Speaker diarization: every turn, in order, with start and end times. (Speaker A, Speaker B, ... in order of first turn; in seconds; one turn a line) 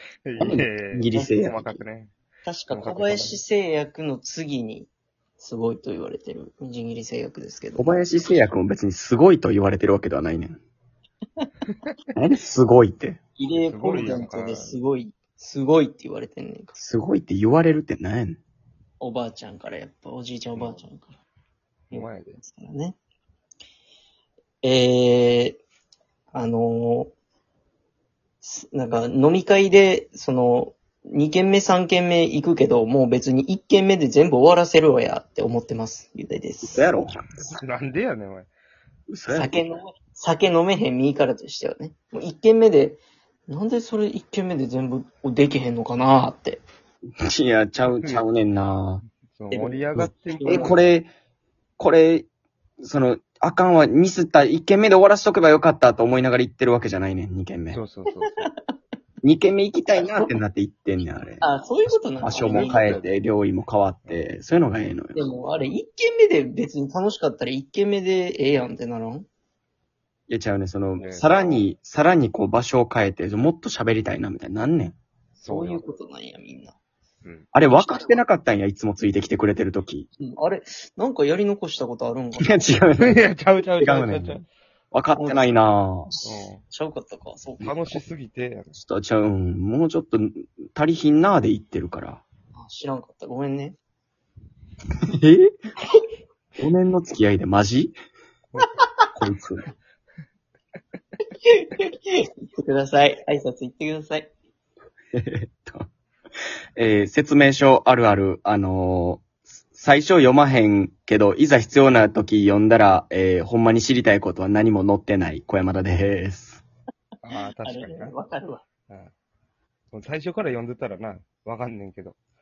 Speaker A: 0.2-2.1
Speaker B: 0.4-1.8
Speaker C: 2.4-7.9
Speaker A: 2.7-3.4
Speaker B: 7.8-10.6
Speaker B: 12.2-13.2
Speaker C: 13.4-16.8
Speaker A: 13.6-14.8
Speaker B: 16.8-18.4
Speaker C: 19.0-21.2
Speaker C: 21.9-23.0
Speaker A: 21.9-22.4
Speaker C: 24.6-25.6
Speaker C: 26.3-27.1
Speaker C: 28.4-36.9
Speaker B: 36.6-37.5
Speaker A: 37.4-38.5
Speaker B: 39.1-39.5
Speaker C: 39.3-46.6
Speaker B: 47.2-49.0
Speaker A: 47.9-48.2
Speaker A: 49.3-50.9
Speaker C: 49.5-50.8
Speaker B: 49.9-51.1
Speaker B: 51.8-52.3
Speaker B: 52.8-57.8
Speaker A: 57.7-58.5
Speaker C: 58.1-58.5
Speaker B: 59.2-61.5
Speaker C: 61.4-63.0
Speaker B: 62.2-65.2
Speaker A: 62.3-63.1
Speaker C: 65.1-69.2
Speaker B: 70.3-75.0
Speaker A: 71.0-71.6
Speaker C: 75.4-76.8
Speaker A: 75.4-75.8
Speaker B: 77.5-80.1
Speaker C: 80.2-82.7
Speaker B: 82.4-84.4
Speaker A: 83.0-84.5
Speaker B: 84.9-86.1
Speaker C: 85.2-85.5
Speaker C: 86.1-87.8
Speaker A: 86.2-86.6
Speaker A: 87.6-88.7
Speaker B: 88.7-92.2
Speaker C: 92.5-93.8
Speaker B: 95.1-95.5
Speaker B: 96.6-97.9
Speaker C: 98.6-98.8
Speaker B: 99.2-99.7
Speaker C: 101.4-104.3
Speaker B: 105.1-105.9
Speaker B: 106.8-116.6
Speaker A: 117.2-118.2
Speaker C: 117.6-118.6
Speaker A: 119.9-122.2